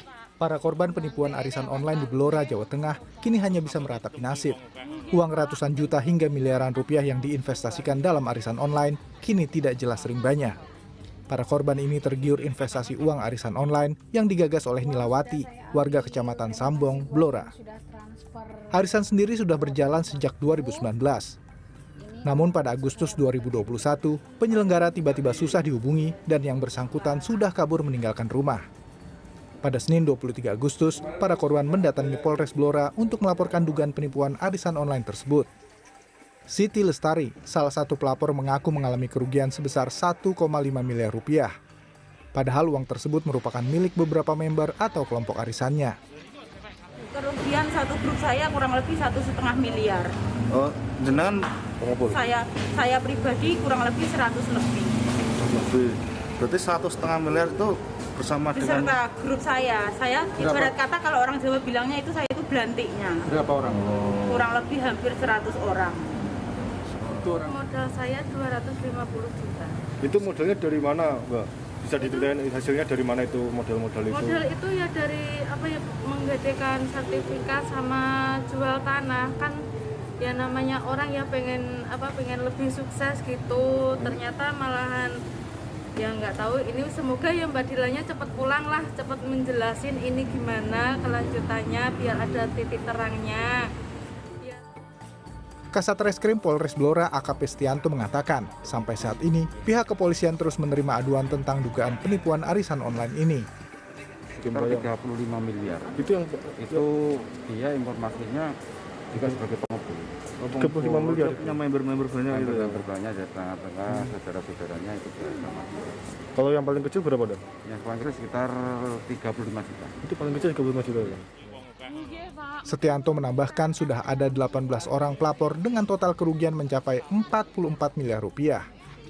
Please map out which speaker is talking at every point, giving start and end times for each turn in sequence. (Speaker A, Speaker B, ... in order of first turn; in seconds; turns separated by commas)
Speaker A: 0.4-4.6, Speaker A: 5.1-10.6, Speaker A: 11.3-17.5, Speaker B: 15.0-18.7, Speaker A: 18.7-21.3, Speaker B: 22.0-23.3, Speaker A: 22.2-28.6, Speaker A: 29.6-35.5, Speaker A: 36.5-41.5, Speaker A: 42.3-46.0, Speaker C: 47.0-50.1, Speaker D: 50.5-51.4, Speaker E: 51.8-52.1, Speaker C: 52.0-54.9, Speaker D: 55.4-59.0, Speaker C: 58.5-66.0, Speaker F: 67.2-69.8, Speaker E: 70.0-74.4, Speaker F: 72.0-72.3, Speaker F: 74.1-79.6, Speaker F: 80.2-85.1, Speaker F: 86.0-93.7, Speaker A: 95.7-103.5, Speaker B: 104.4-105.9, Speaker E: 104.4-104.9, Speaker E: 106.0-106.9, Speaker B: 106.7-108.5, Speaker B: 109.1-110.1, Speaker E: 110.4-112.9, Speaker D: 110.5-112.0, Speaker B: 112.3-115.9, Speaker E: 116.3-117.4, Speaker B: 117.6-119.9, Speaker E: 120.0-121.4, Speaker A: 122.6-128.7